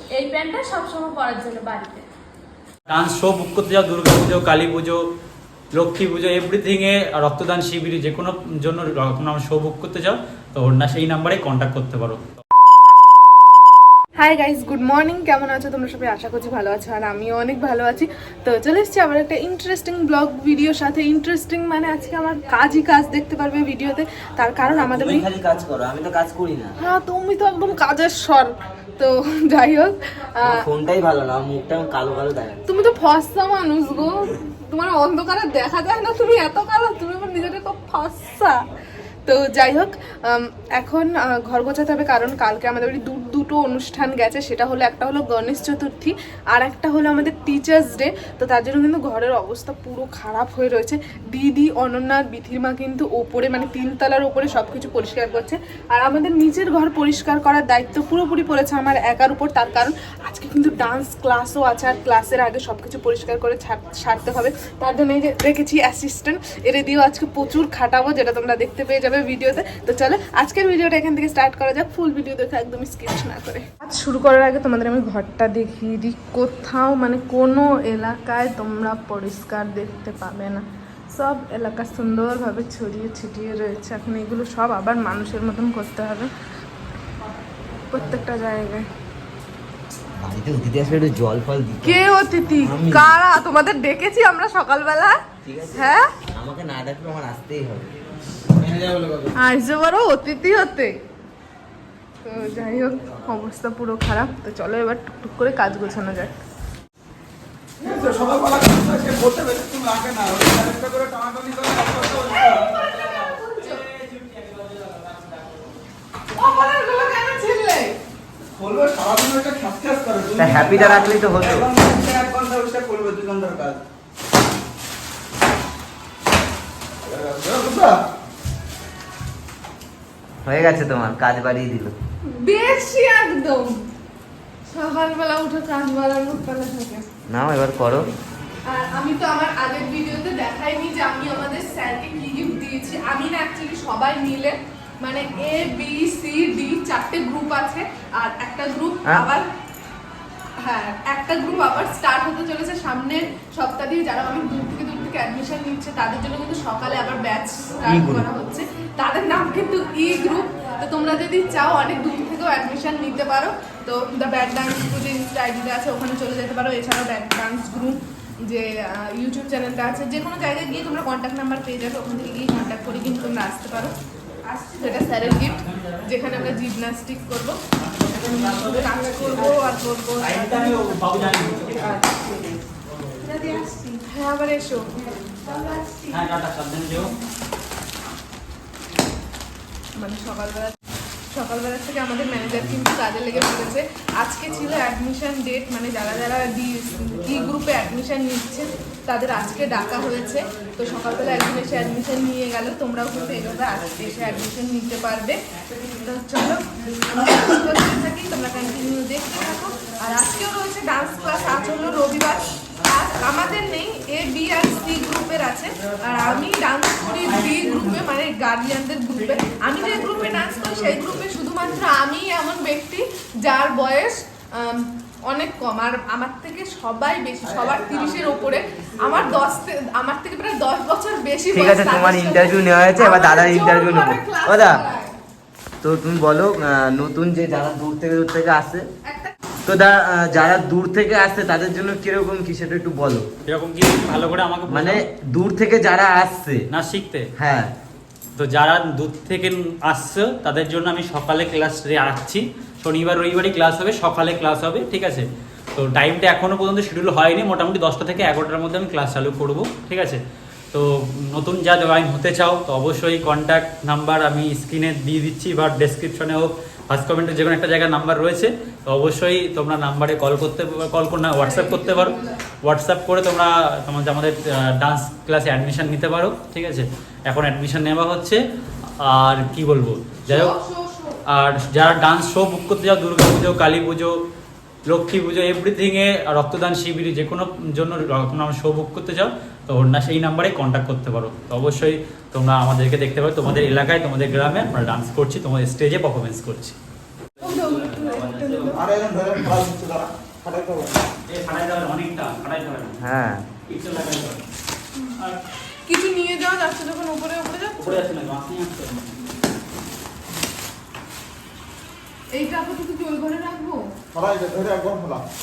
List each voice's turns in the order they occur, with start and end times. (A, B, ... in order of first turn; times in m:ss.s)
0:00.1-0:02.0 A
0:02.9-0:05.0 B
0:05.7-0:12.2 B
0:14.2-0:25.3 C
0:24.6-0:26.8 D
0:26.8-0:30.6 C
0:30.4-0:32.6 D
0:32.6-0:38.6 C
0:39.2-1:26.3 C
1:27.9-1:28.9 C
1:30.2-1:32.0 D
1:31.8-1:35.2 C
1:32.6-1:33.2 D
1:35.4-1:37.9 D
1:35.7-1:36.1 C
1:38.6-1:39.3 E
1:39.4-1:40.9 C
1:42.2-1:46.3 C
1:47.8-1:52.7 E
1:52.8-1:55.7 B
1:56.3-1:58.0 C
1:58.5-2:03.8 E
2:00.4-2:01.7 D
2:07.0-2:08.0 E
2:10.4-2:11.9 D
2:12.2-2:13.8 C
2:14.7-2:17.1 C
2:17.3-2:18.1 D
2:18.6-2:29.5 C
2:30.6-2:54.0 C
2:37.8-2:38.3 D
2:54.5-2:57.6 C
2:57.8-3:02.1 B
2:58.3-3:02.5 C
3:03.2-3:05.0 C
3:06.0-3:07.1 B
3:10.0-3:10.8 C
3:11.3-3:55.2 C
3:47.4-3:49.4 E
3:51.5-3:54.8 D
3:55.8-3:58.8 D
3:59.0-3:59.3 C
3:59.6-4:03.3 D
4:03.4-4:05.0 B
4:04.7-4:06.7 D
4:06.7-4:07.3 B
4:07.4-4:07.7 D
4:08.4-4:20.2 B
4:20.7-4:38.4 B
4:31.3-4:32.4 C
4:39.0-4:40.6 B
4:40.3-4:41.2 C
4:41.3-4:44.1 B
4:44.9-4:56.8 B
4:57.4-4:58.8 B
4:57.4-4:58.8 C
4:58.8-5:01.0 E
5:01.3-5:03.0 B
5:03.0-5:03.5 D
5:03.6-5:04.4 B
5:05.9-5:08.1 C
5:07.8-5:09.1 B
5:12.3-5:13.8 C
5:14.1-5:15.2 E